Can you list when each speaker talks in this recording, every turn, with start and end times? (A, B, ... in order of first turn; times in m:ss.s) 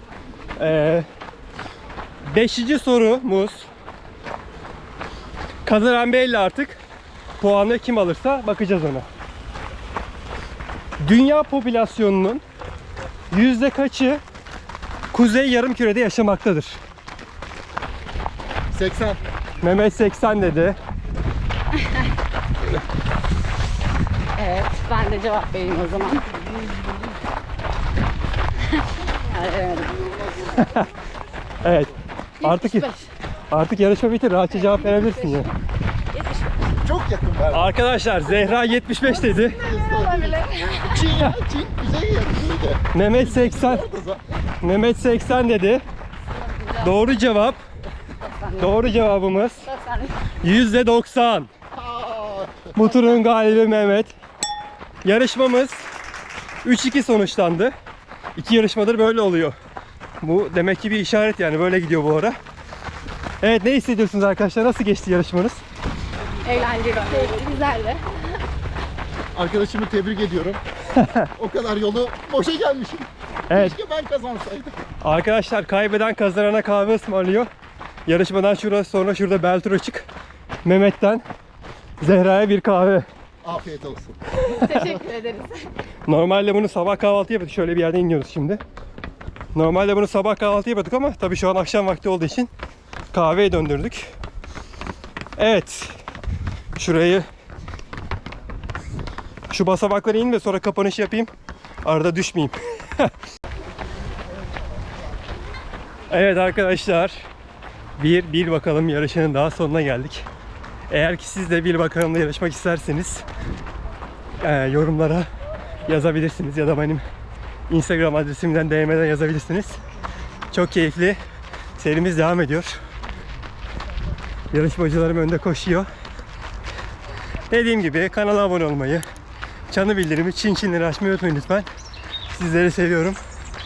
0:00.6-0:01.1 A
0:02.3-0:03.6 A
0:05.6-0:06.8 A
0:07.4-0:09.1 A
0:11.0-0:12.4 A
0:13.3-0:14.2 A
0:15.1-0:16.8 A
0:18.7-0:19.2 B
0:19.6-0:20.8 A
0:24.4-0:26.2 C
0:28.7-0:30.2 C
0:30.6-0:30.9 A
0:31.6-0:32.9 A
0:32.4-0:33.1 C
0:33.5-0:35.5 A
0:34.5-0:35.5 C
0:36.1-0:36.5 C
0:36.8-0:37.7 B
0:37.5-0:39.6 A
0:39.4-0:41.2 C
0:39.4-0:44.2 B
0:42.9-0:43.8 A
0:44.6-0:45.8 A
0:46.4-0:46.9 C
0:46.8-0:47.6 A
0:48.2-0:48.9 C
0:48.6-0:49.7 A
0:49.7-0:50.1 C
0:50.4-0:51.5 A
0:51.7-0:52.7 B
0:52.8-0:54.1 A
0:55.0-0:55.8 A
0:56.6-0:57.7 A
0:58.4-0:59.6 A
1:00.2-1:02.4 A
1:03.4-1:05.6 A
1:06.4-1:08.0 C
1:09.4-1:10.6 B
1:11.0-1:11.3 A
1:11.3-1:14.8 B
1:13.5-1:13.8 A
1:15.0-1:17.5 A
1:18.1-1:20.1 A
1:20.6-1:21.2 A
1:22.0-1:23.1 A
1:23.4-1:24.2 B
1:24.4-1:25.7 C
1:26.1-1:28.6 A
1:29.5-1:32.5 A
1:33.1-1:34.1 A
1:35.4-1:36.0 A
1:36.8-1:37.2 A
1:39.5-1:41.3 A
1:41.8-1:43.1 A
1:46.1-1:47.2 A
1:48.0-1:50.2 A
1:50.9-1:53.2 A
1:54.4-1:55.3 A
1:55.9-1:57.0 A
1:57.7-1:59.8 A
2:00.5-2:01.2 A
2:01.8-2:02.8 A
2:04.5-2:05.9 A
2:07.5-2:09.0 A
2:09.7-2:11.7 A
2:12.3-2:13.2 A